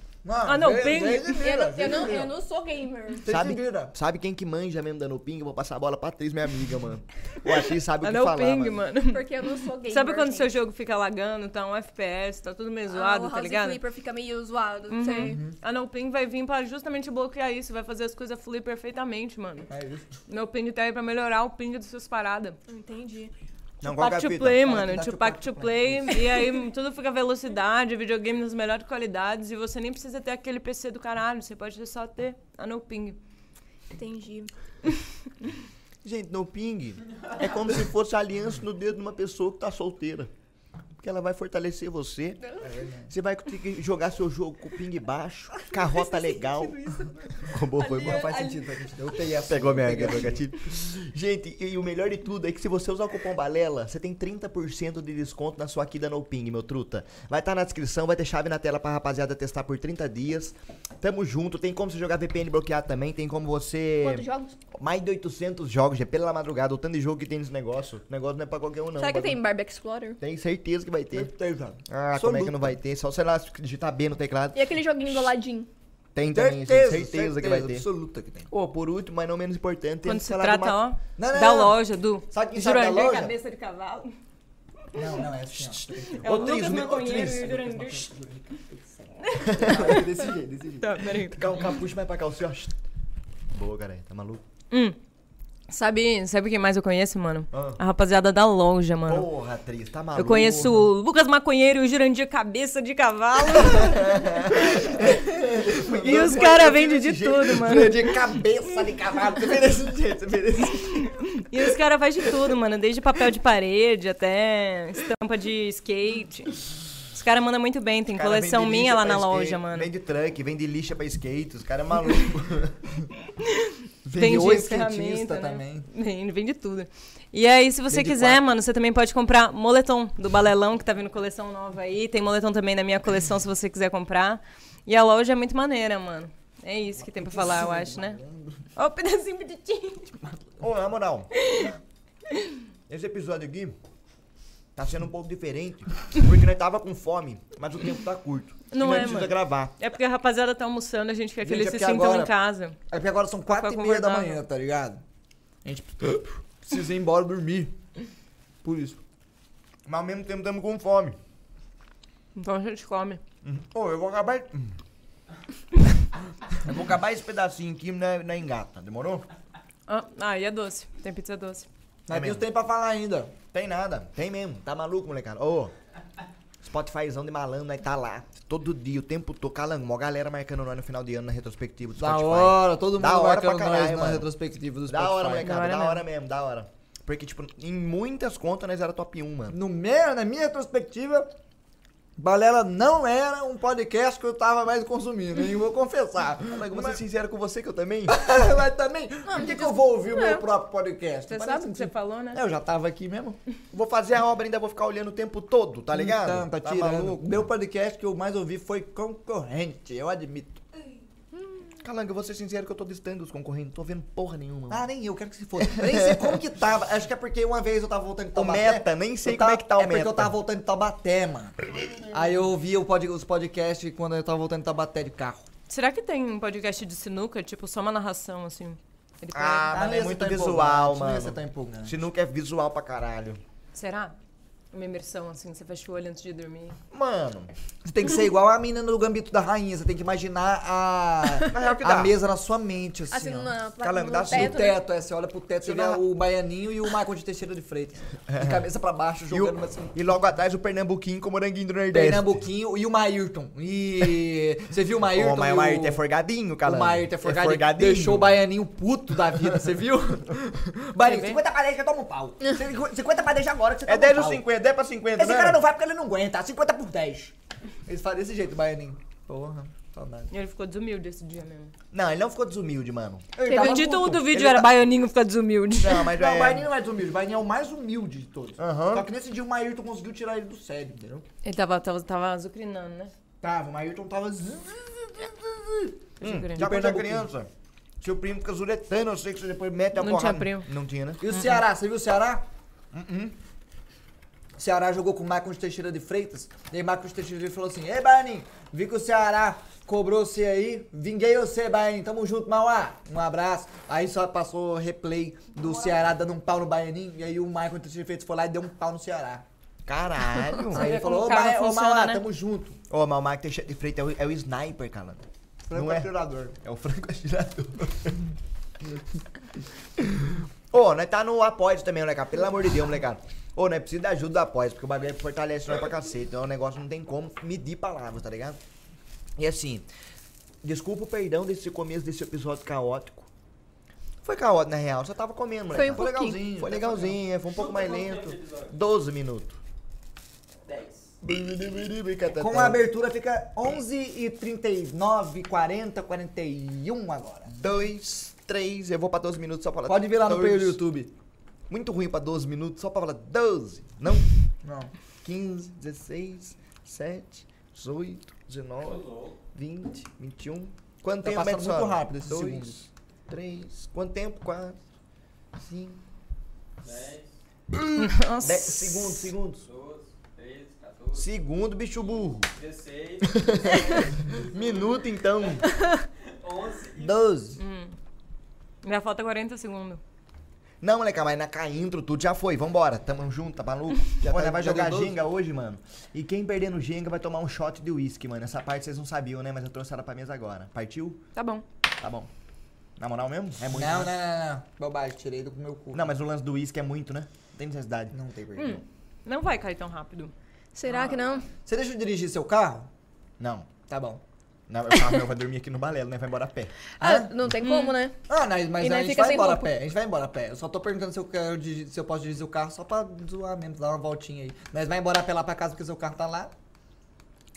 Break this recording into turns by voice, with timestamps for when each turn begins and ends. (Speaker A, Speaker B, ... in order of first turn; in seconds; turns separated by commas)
Speaker A: 0.2-2.3, Speaker B: 0.4-1.5, Speaker C: 1.2-3.3, Speaker A: 3.2-3.9, Speaker D: 3.2-8.9, Speaker B: 8.0-9.2, Speaker C: 9.0-10.5, Speaker B: 9.8-13.8, Speaker C: 12.9-15.4, Speaker B: 14.9-19.7, Speaker A: 15.1-15.5, Speaker A: 19.7-20.1, Speaker B: 20.3-22.6, Speaker C: 22.7-23.3, Speaker D: 23.8-24.6, Speaker B: 23.8-33.2, Speaker A: 24.6-26.2, Speaker C: 33.9-34.5, Speaker D: 36.0-40.3, Speaker D: 41.0-42.4, Speaker A: 42.6-43.1, Speaker D: 43.1-48.4, Speaker C: 45.7-49.0, Speaker A: 47.9-50.5, Speaker D: 49.4-69.4, Speaker C: 64.0-64.5, Speaker C: 69.0-70.2, Speaker D: 70.2-71.3, Speaker A: 71.1-72.8, Speaker D: 71.9-74.8, Speaker C: 74.5-75.7, Speaker D: 76.1-77.8, Speaker A: 76.3-78.5, Speaker D: 78.5-80.8, Speaker B: 80.0-84.2, Speaker A: 81.2-81.8, Speaker D: 82.3-83.3, Speaker A: 84.9-90.8, Speaker D: 85.6-87.6, Speaker B: 86.1-88.1, Speaker B: 89.2-90.0, Speaker D: 89.4-92.8, Speaker B: 90.8-91.4, Speaker D: 93.5-94.4, Speaker B: 94.7-95.0, Speaker B: 95.7-99.3, Speaker D: 97.5-97.8, Speaker D: 99.0-100.9, Speaker B: 100.1-105.0, Speaker D: 103.5-108.2, Speaker A: 105.0-106.8, Speaker B: 106.0-108.1, Speaker A: 107.5-109.9, Speaker D: 108.9-111.3, Speaker B: 111.5-116.6, Speaker B: 117.1-119.9, Speaker D: 118.1-122.8, Speaker B: 123.4-138.2, Speaker A: 124.0-125.9, Speaker A: 127.9-128.4, Speaker A: 136.9-138.6, Speaker B: 138.8-140.3, Speaker D: 140.6-141.3, Speaker B: 141.3-141.8, Speaker D: 142.9-143.8, Speaker D: 144.7-149.7, Speaker B: 148.7-152.8, Speaker A: 151.4-152.3, Speaker A: 152.9-155.0, Speaker B: 153.5-154.4, Speaker A: 155.6-157.7, Speaker A: 158.6-159.0, Speaker D: 159.8-161.2, Speaker B: 162.3-163.2, Speaker D: 163.4-164.8, Speaker D: 166.5-169.3, Speaker B: 169.9-171.7, Speaker A: 172.1-173.3, Speaker D: 172.1-172.4, Speaker D: 173.5-175.7, Speaker D: 176.6-184.3, Speaker A: 181.9-185.6, Speaker D: 184.9-189.6, Speaker B: 185.3-186.0, Speaker A: 189.5-191.3, Speaker A: 192.2-197.0, Speaker D: 196.5-198.1, Speaker A: 198.1-203.4, Speaker B: 199.3-200.4, Speaker B: 201.3-202.4, Speaker D: 203.7-207.4, Speaker A: 205.9-210.6, Speaker C: 211.3-211.7, Speaker D: 211.8-214.8, Speaker A: 214.7-221.6, Speaker D: 215.6-216.3, Speaker D: 218.3-220.3, Speaker D: 221.8-222.0, Speaker A: 222.1-225.4, Speaker B: 225.7-229.8, Speaker D: 229.3-233.4, Speaker A: 229.7-232.0, Speaker B: 233.7-234.1, Speaker B: 234.7-236.8, Speaker D: 236.9-237.5, Speaker A: 237.8-243.6, Speaker D: 241.4-242.1, Speaker C: 243.1-244.8, Speaker D: 243.8-244.7, Speaker A: 244.3-249.9, Speaker D: 245.6-246.0, Speaker D: 248.3-248.6, Speaker D: 249.3-252.3, Speaker A: 251.9-256.0, Speaker D: 255.1-258.4, Speaker A: 256.6-264.5, Speaker B: 261.0-261.4, Speaker D: 263.9-265.6, Speaker A: 265.1-267.3, Speaker A: 267.9-270.3, Speaker B: 270.3-271.7, Speaker D: 271.9-273.3, Speaker A: 273.4-274.4, Speaker C: 273.4-273.9, Speaker B: 273.5-276.1, Speaker D: 274.3-274.7, Speaker D: 275.8-276.7, Speaker A: 276.1-281.2, Speaker D: 278.6-279.1, Speaker B: 281.4-283.1, Speaker A: 283.4-285.9, Speaker B: 286.2-286.6, Speaker D: 286.2-287.5, Speaker A: 286.5-287.3, Speaker D: 288.0-291.2, Speaker B: 289.9-290.7, Speaker A: 291.2-292.4, Speaker D: 292.9-293.3, Speaker A: 294.6-309.4, Speaker D: 309.9-310.9, Speaker A: 310.7-312.8, Speaker B: 310.7-312.2, Speaker D: 312.9-316.1, Speaker A: 315.7-316.6, Speaker D: 316.6-318.3, Speaker D: 320.7-328.6, Speaker D: 329.4-329.9, Speaker D: 330.6-333.3, Speaker D: 334.2-339.6, Speaker C: 335.7-336.4, Speaker A: 335.8-337.2, Speaker E: 337.5-338.7, Speaker E: 340.7-341.1, Speaker D: 341.2-342.8, Speaker A: 342.3-347.6, Speaker D: 347.5-350.8, Speaker A: 349.8-351.1, Speaker D: 351.7-354.3, Speaker A: 354.6-354.9, Speaker D: 355.2-359.0, Speaker E: 358.8-359.4, Speaker D: 359.5-364.8, Speaker A: 361.2-362.9, Speaker D: 365.6-366.0, Speaker E: 366.8-367.3, Speaker D: 367.7-369.7, Speaker B: 367.9-369.3, Speaker E: 369.6-371.3, Speaker D: 371.1-372.5, Speaker E: 372.5-375.0, Speaker D: 373.3-375.7, Speaker E: 376.2-377.3, Speaker A: 377.0-377.6, Speaker B: 377.6-377.9, Speaker B: 378.8-380.0, Speaker D: 380.8-391.2, Speaker A: 384.2-385.2, Speaker B: 391.3-391.6, Speaker D: 391.9-392.3, Speaker D: 393.0-394.1, Speaker A: 393.7-396.1, Speaker D: 395.9-398.1, Speaker A: 398.1-398.8, Speaker B: 398.5-400.3, Speaker C: 400.7-401.5, Speaker B: 400.8-401.4, Speaker A: 401.6-402.9, Speaker D: 403.4-403.7, Speaker A: 403.9-404.2, Speaker D: 404.7-406.7, Speaker C: 407.0-408.2, Speaker A: 407.0-407.4, Speaker B: 407.6-408.0, Speaker A: 408.3-416.5, Speaker C: 408.8-409.7